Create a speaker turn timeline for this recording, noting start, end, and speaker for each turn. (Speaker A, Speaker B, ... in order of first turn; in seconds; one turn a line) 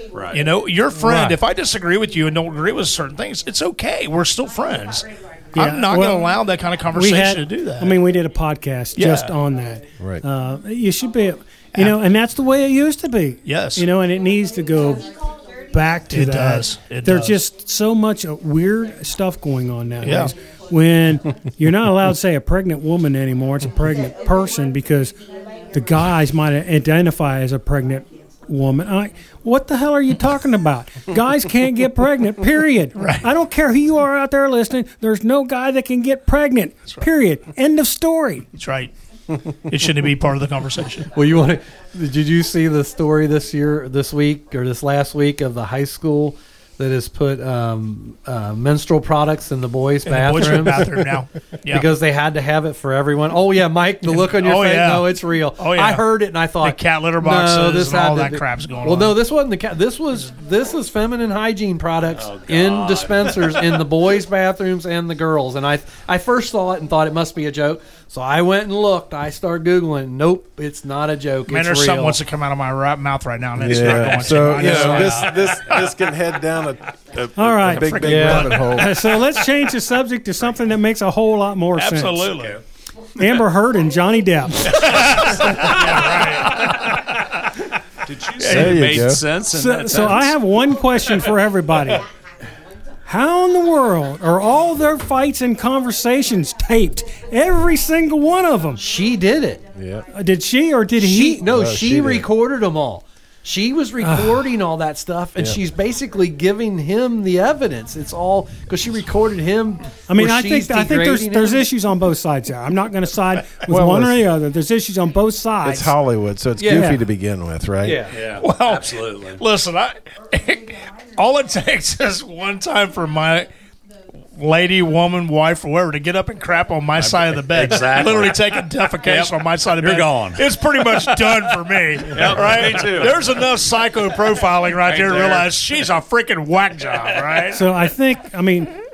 Speaker A: 0.1-0.5
Speaker B: 0.3-8.0
Speaker C: 1.0-1.3
Speaker C: 5.5-6.3
Speaker C: 6.9-15.1
Speaker B: 9.0-9.3
Speaker B: 13.5-13.9
Speaker C: 15.7-25.2
Speaker B: 16.1-17.4
Speaker B: 20.0-20.3
Speaker C: 25.7-38.5
Speaker B: 33.0-33.3
Speaker B: 38.5-38.9
Speaker B: 39.7-41.1
Speaker D: 41.1-51.0
Speaker B: 50.1-51.9
Speaker D: 51.7-72.2
Speaker B: 54.1-56.1
Speaker B: 56.6-59.2
Speaker A: 62.2-63.8
Speaker B: 71.5-75.7
Speaker E: 73.6-79.1
Speaker D: 74.6-75.2
Speaker C: 77.4-82.3
Speaker B: 77.6-78.9
Speaker D: 78.0-78.5
Speaker B: 81.8-82.6
Speaker C: 83.2-84.9
Speaker B: 84.7-87.2
Speaker A: 85.7-86.8
Speaker A: 88.1-90.4
Speaker B: 88.4-89.1
Speaker E: 88.4-89.2
Speaker C: 89.5-92.0
Speaker C: 93.1-98.8
Speaker D: 98.8-99.6
Speaker E: 99.8-100.1
Speaker C: 100.1-101.5
Speaker D: 101.0-111.7
Speaker E: 101.4-102.3
Speaker C: 104.0-104.4
Speaker C: 110.1-115.9
Speaker E: 113.7-114.2
Speaker E: 115.6-118.0
Speaker D: 116.6-116.9
Speaker C: 116.6-117.0
Speaker D: 117.8-118.2
Speaker A: 118.1-119.4
Speaker B: 118.4-123.5
Speaker B: 124.3-137.7
Speaker A: 127.0-128.5
Speaker A: 129.0-131.2
Speaker A: 132.1-133.3
Speaker A: 134.8-135.5
Speaker C: 137.5-138.7